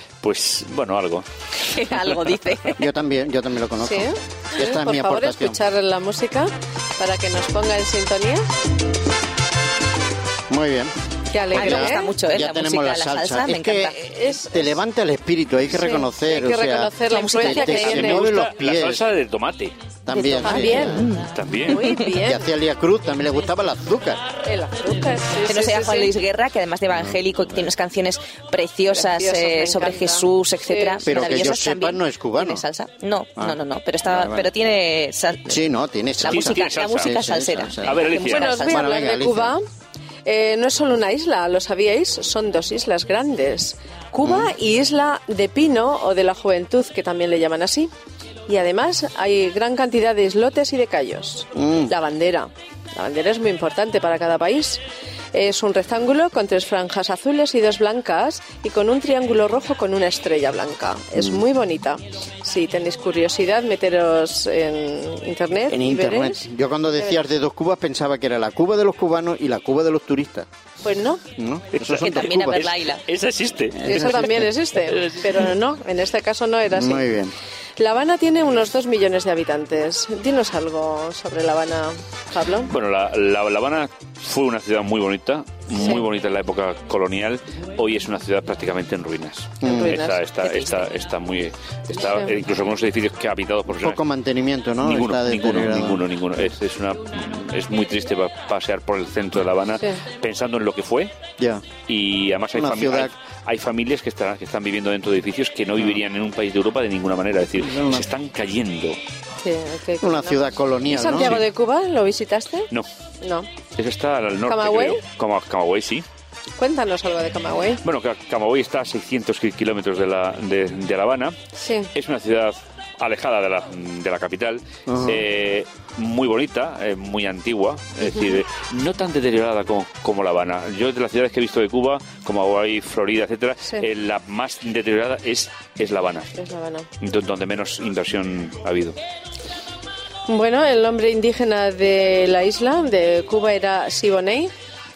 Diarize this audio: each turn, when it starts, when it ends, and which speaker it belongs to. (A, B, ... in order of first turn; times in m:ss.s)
0:00.2-0:01.3 A
0:01.6-0:02.8 B
0:02.7-0:05.6 C
0:03.8-0:08.5 D
0:10.5-0:10.9 C
0:11.3-0:12.1 D
0:11.5-0:19.1 C
0:11.5-0:14.1 B
0:14.1-0:14.8 D
0:15.7-0:18.3 D
0:17.0-0:18.2 B
0:18.0-0:19.8 A
0:20.1-0:21.1 C
0:20.1-0:21.1 D
0:20.3-0:22.0 B
0:21.3-0:21.9 A
0:21.7-0:22.5 D
0:22.0-0:24.3 C
0:24.4-0:26.2 D
0:25.5-0:35.7 B
0:26.9-0:27.2 C
0:28.9-0:31.5 D
0:31.0-0:32.6 C
0:33.4-0:34.5 C
0:35.5-0:39.6 C
0:36.2-0:38.9 B
0:36.3-0:37.3 A
0:37.8-0:38.6 A
0:38.2-0:39.6 D
0:40.2-0:47.9 D
0:44.2-0:44.5 C
0:48.5-0:54.8 D
0:51.6-0:51.9 C
0:55.3-1:06.5 D
1:05.7-1:10.5 C
1:10.8-1:11.2 D
1:11.4-1:12.6 C
1:11.7-1:15.4 A
1:12.0-1:13.0 B
1:13.8-1:17.1 D
1:16.7-1:17.3 C
1:17.8-1:22.7 D
1:22.7-1:34.0 A
1:25.7-1:26.1 D
1:29.6-1:30.0 C
1:29.6-1:30.5 D
1:33.7-1:36.1 C
1:34.8-1:41.1 A
1:41.4-1:41.7 C
1:41.9-1:49.0 A
1:42.5-1:43.1 C
1:47.6-1:48.0 C
1:49.4-1:53.5 D
1:50.0-1:51.4 C
1:51.2-1:51.4 A
1:53.8-1:56.0 A
1:54.5-1:55.0 D
1:56.6-1:57.8 D
1:57.8-2:01.4 A
2:01.5-2:01.9 D
2:01.9-2:16.3 A
2:04.9-2:05.2 C
2:08.0-2:08.4 D
2:16.4-2:16.9 D
2:17.0-2:19.0 A
2:20.3-2:24.5 D